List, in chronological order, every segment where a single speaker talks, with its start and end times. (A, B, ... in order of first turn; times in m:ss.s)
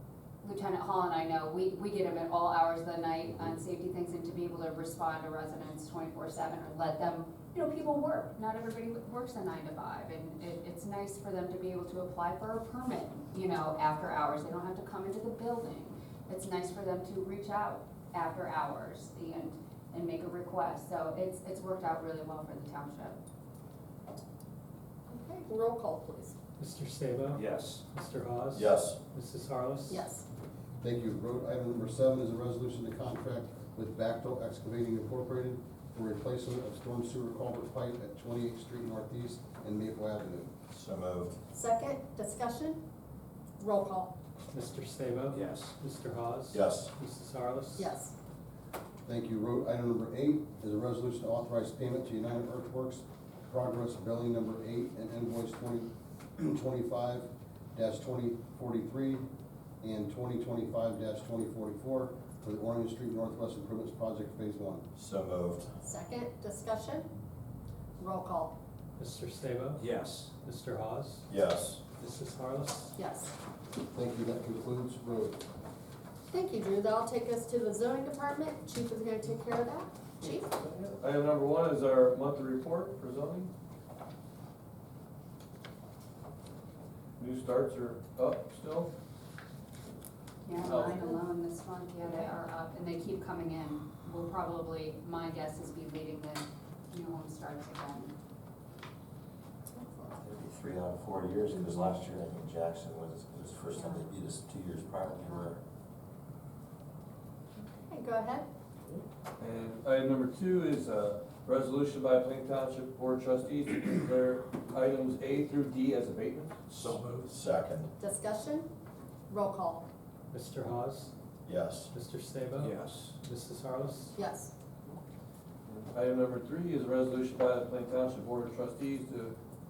0:00.4-0:23.2 A
0:25.1-0:26.3 B
0:26.6-0:30.0 C
0:27.3-0:27.8 D
0:28.5-0:29.0 E
0:29.9-0:30.2 B
0:30.8-0:40.5 F
0:40.7-0:41.4 E
0:41.5-0:42.8 B
0:43.6-0:44.1 B
0:44.5-0:47.9 C
0:45.3-0:45.7 D
0:46.5-0:46.9 E
0:47.8-0:48.1 B
0:49.0-0:59.2 F
0:59.8-1:04.8 F
1:04.9-1:05.7 E
1:05.8-1:07.1 B
1:08.0-1:08.5 B
1:09.0-1:11.3 C
1:09.8-1:10.3 D
1:11.3-1:11.8 E
1:12.0-1:13.0 C
1:13.0-1:13.3 B
1:13.9-1:15.4 F
1:16.3-1:20.5 B
1:20.2-1:23.5 G
1:27.2-1:28.9 G
1:30.4-1:38.2 A
1:30.6-1:31.1 G
1:39.7-1:40.2 B
1:40.2-1:45.6 E
1:43.8-1:44.1 A
1:47.6-1:48.5 B
1:48.9-1:56.5 G
1:56.7-1:57.3 D
1:57.3-1:57.9 E
1:58.0-1:58.7 B
1:59.3-1:59.8 B
2:00.3-2:01.1 C
2:01.4-2:01.9 E
2:01.9-2:04.2 C
2:02.6-2:03.2 D
2:04.1-2:04.5 B
2:05.6-2:09.4 G